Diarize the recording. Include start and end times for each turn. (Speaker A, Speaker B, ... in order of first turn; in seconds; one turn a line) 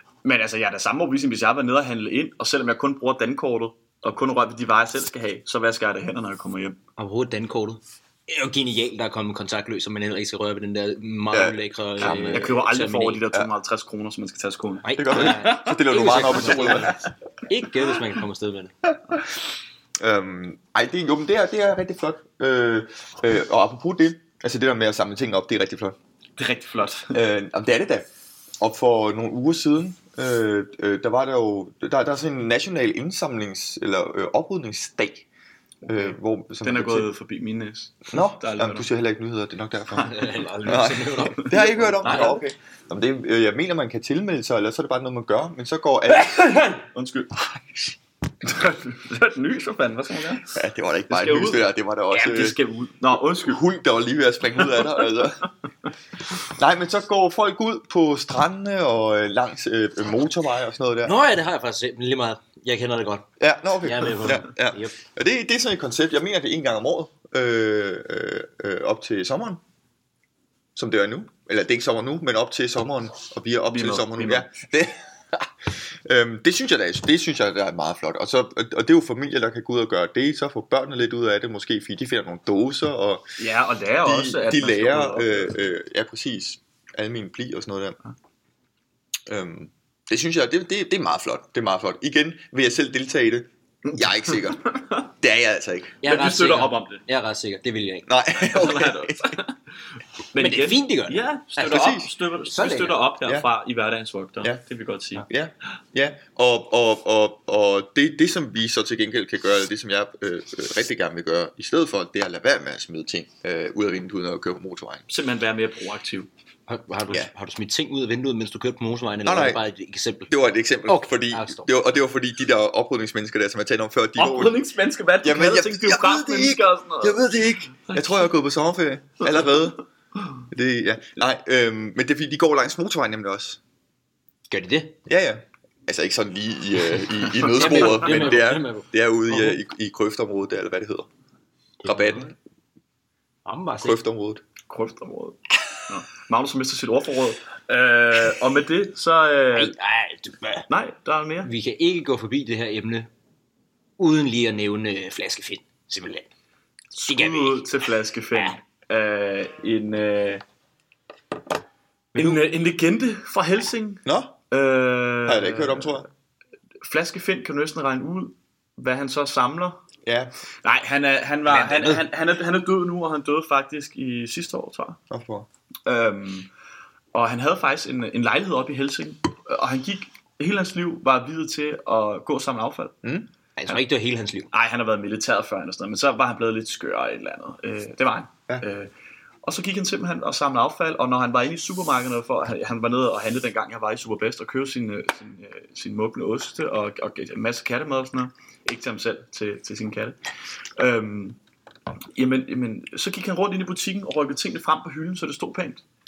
Speaker A: 0.2-6.8
Speaker B: 7.0-13.2
Speaker C: 11.3-12.6
Speaker A: 12.0-17.1
Speaker B: 14.8-18.8
Speaker C: 15.0-17.0
Speaker C: 18.9-19.2
Speaker C: 20.0-26.0
Speaker A: 26.4-27.2
Speaker C: 27.1-28.1
Speaker C: 28.6-35.3
Speaker C: 35.9-37.1
Speaker A: 35.9-38.9
Speaker C: 38.1-46.5
Speaker B: 40.0-42.4
Speaker A: 41.4-42.4
Speaker A: 46.2-47.5
Speaker A: 48.4-50.5
Speaker C: 50.5-52.6
Speaker A: 51.1-53.6
Speaker C: 53.4-55.5
Speaker C: 56.4-61.2
Speaker B: 61.0-63.3
Speaker C: 63.4-69.6
Speaker B: 63.8-65.0
Speaker C: 70.8-83.2
Speaker A: 73.7-74.5
Speaker A: 83.4-85.5
Speaker C: 84.0-88.0
Speaker C: 89.3-94.6
Speaker A: 94.3-95.0
Speaker C: 95.2-96.0
Speaker B: 96.0-98.1
Speaker A: 96.0-97.0
Speaker C: 98.1-99.3
Speaker A: 98.4-99.5
Speaker A: 100.3-105.3
Speaker B: 100.4-101.9
Speaker C: 101.6-102.1
Speaker B: 102.5-103.0
Speaker C: 105.2-115.0
Speaker A: 115.1-116.3
Speaker B: 116.7-120.3
Speaker C: 119.2-119.6
Speaker C: 120.3-124.6
Speaker B: 120.9-121.7
Speaker A: 124.2-127.3
Speaker C: 125.2-129.8
Speaker A: 127.9-128.3
Speaker A: 129.2-129.6
Speaker C: 130.5-133.6
Speaker B: 134.5-135.0
Speaker C: 135.1-141.1
Speaker B: 137.3-139.6
Speaker A: 137.7-138.0
Speaker B: 141.8-142.3
Speaker C: 141.8-142.3
Speaker B: 143.4-144.0
Speaker C: 143.8-144.4
Speaker A: 144.7-149.8
Speaker B: 149.6-150.7
Speaker A: 150.7-151.5
Speaker B: 151.4-153.1
Speaker B: 154.0-156.3
Speaker A: 156.9-160.4
Speaker B: 157.1-157.7
Speaker A: 162.2-166.0
Speaker C: 164.1-164.3
Speaker C: 165.3-166.1
Speaker A: 166.8-169.8
Speaker C: 170.1-170.3
Speaker A: 170.6-175.0
Speaker B: 171.5-172.1
Speaker C: 175.1-175.5
Speaker A: 175.9-176.5
Speaker A: 177.1-183.0
Speaker C: 183.0-183.3
Speaker B: 183.6-184.5
Speaker A: 184.5-188.9
Speaker A: 189.4-200.2
Speaker A: 200.8-201.4
Speaker A: 202.2-205.8